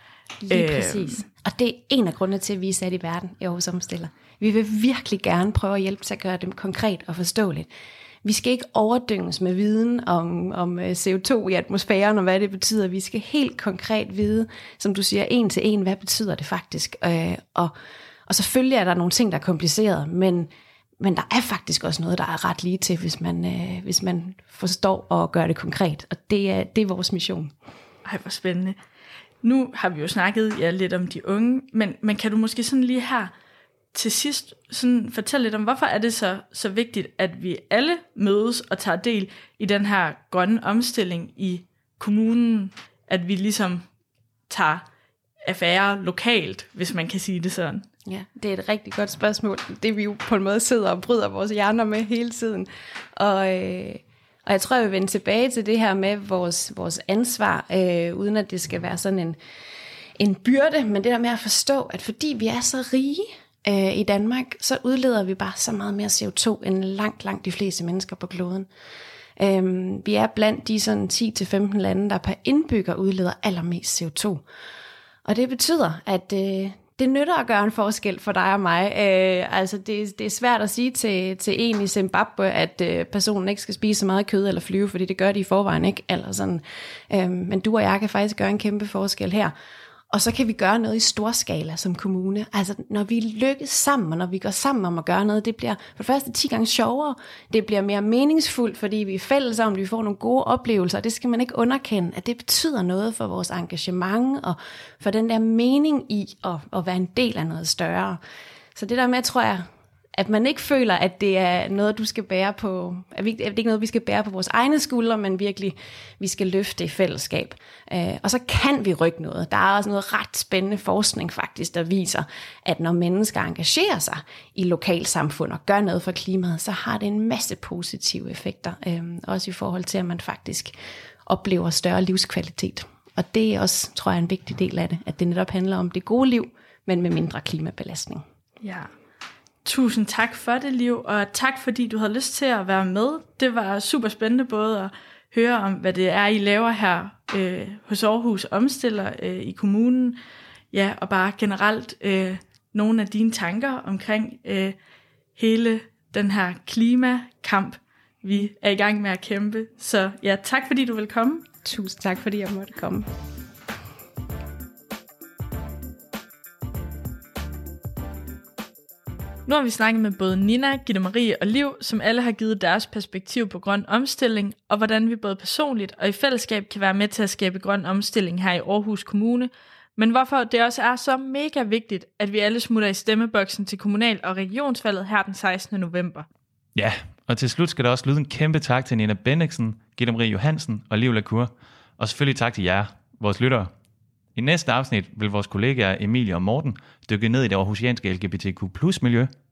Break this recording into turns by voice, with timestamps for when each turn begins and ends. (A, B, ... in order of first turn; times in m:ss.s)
0:00.5-0:07.7 A
0:00.5-0:01.3 B
0:08.2-0:17.7 A
0:18.3-0:20.5 A
0:21.0-0:27.5 A
0:28.0-0:28.8 B
0:29.4-0:33.3 B
0:33.9-0:43.9 B
0:44.5-0:44.8 B
0:45.4-0:47.9 B
0:48.0-0:59.4 A
1:00.2-1:08.7 A
1:09.4-1:14.4 A
1:15.2-1:29.5 A
1:30.1-1:48.2 A
1:48.8-2:10.8 A
2:11.3-2:18.2 A
2:18.6-2:18.9 B
2:19.6-2:30.2 B
2:30.7-2:34.8 B
2:35.4-2:41.5 B
2:41.6-2:43.1 A
2:49.5-3:06.3 B
3:06.8-3:13.7 C
3:14.4-3:19.3 C